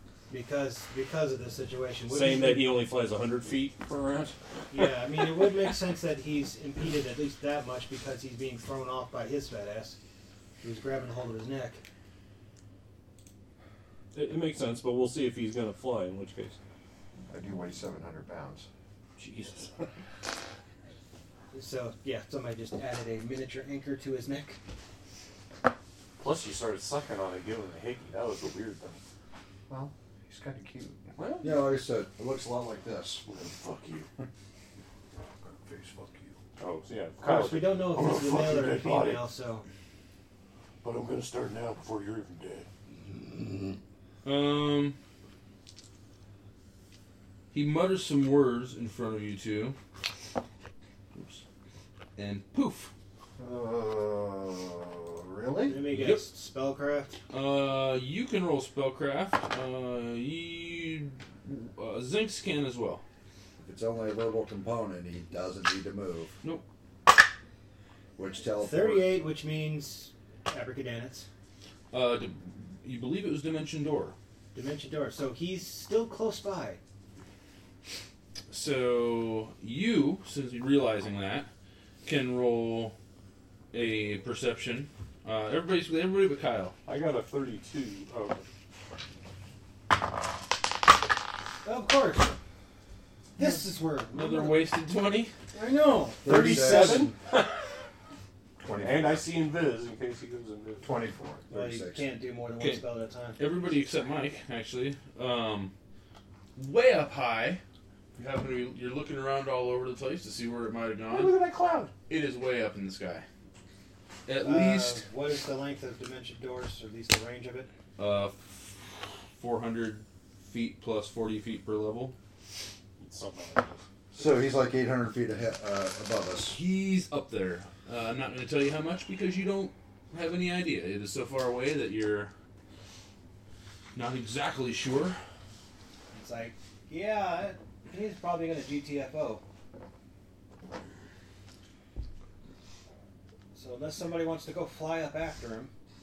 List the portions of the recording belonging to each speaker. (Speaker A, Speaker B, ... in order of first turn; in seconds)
Speaker A: 0.3-2.7, 4.7-10.0, 10.6-11.8, 21.5-24.6, 37.2-39.6, 55.6-57.2, 68.6-71.3, 74.5-76.8, 91.6-92.4, 93.4-94.7, 95.5-97.1, 101.5-103.4, 114.4-117.7, 136.1-139.4, 143.5-145.7
Speaker B: 2.1-5.5, 14.1-16.6, 19.2-19.9, 26.2-29.0, 31.2-31.8, 33.2-34.1, 36.6-39.2, 40.8-42.7, 86.8-88.4, 96.2-97.6, 98.8-101.0, 111.1-111.9, 123.0-123.8
Speaker C: 17.3-18.7, 29.7-31.0, 35.5-36.3, 53.4-55.8, 98.6-99.3, 100.8-101.4
Speaker D: 31.4-33.2, 63.6-66.4, 68.2-69.1, 96.2-97.1, 101.5-102.1, 124.1-126.6
Speaker E: 44.2-45.0, 47.5-49.8, 51.1-51.4, 52.1-52.9, 55.9-56.2, 57.3-63.0, 71.9-74.1, 78.5-81.5, 82.0-82.9, 83.7-86.8, 94.1-95.3, 102.6-102.8, 103.3-105.7, 106.5-107.6, 108.2-111.3, 112.1-113.2, 114.2-115.0, 118.0-122.1, 126.5-132.3, 133.9-135.2